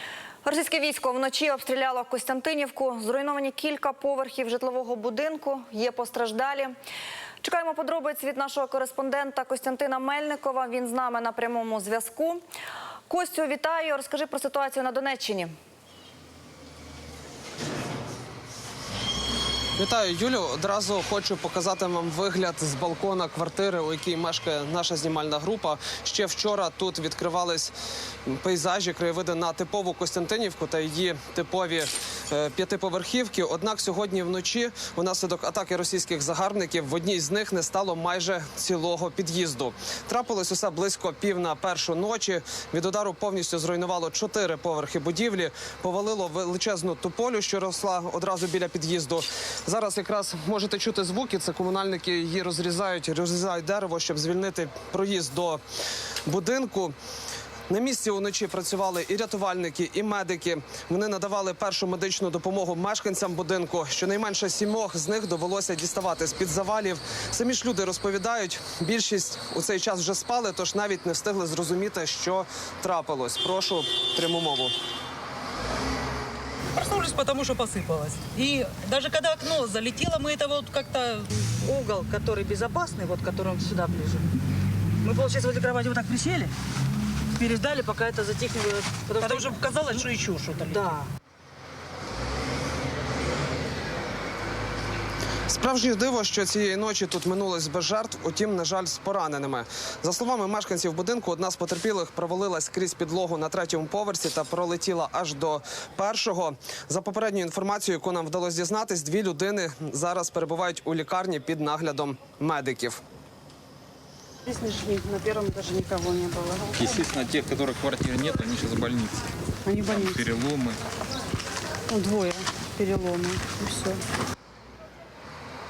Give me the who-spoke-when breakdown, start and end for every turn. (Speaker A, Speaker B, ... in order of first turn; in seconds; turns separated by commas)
Speaker A: 0.5-6.7, Speaker A: 7.4-12.4, Speaker A: 13.1-15.5, Speaker B: 19.8-27.7, Speaker B: 28.3-55.6, Speaker B: 56.3-57.0, Speaker B: 57.7-74.7, Speaker C: 76.8-84.2, Speaker C: 85.1-86.5, Speaker C: 87.4-91.0, Speaker D: 89.1-90.0, Speaker D: 90.7-91.0, Speaker B: 95.5-113.0, Speaker D: 114.5-116.6, Speaker E: 116.7-119.2, Speaker D: 119.7-120.2, Speaker E: 119.8-120.8, Speaker D: 121.9-124.0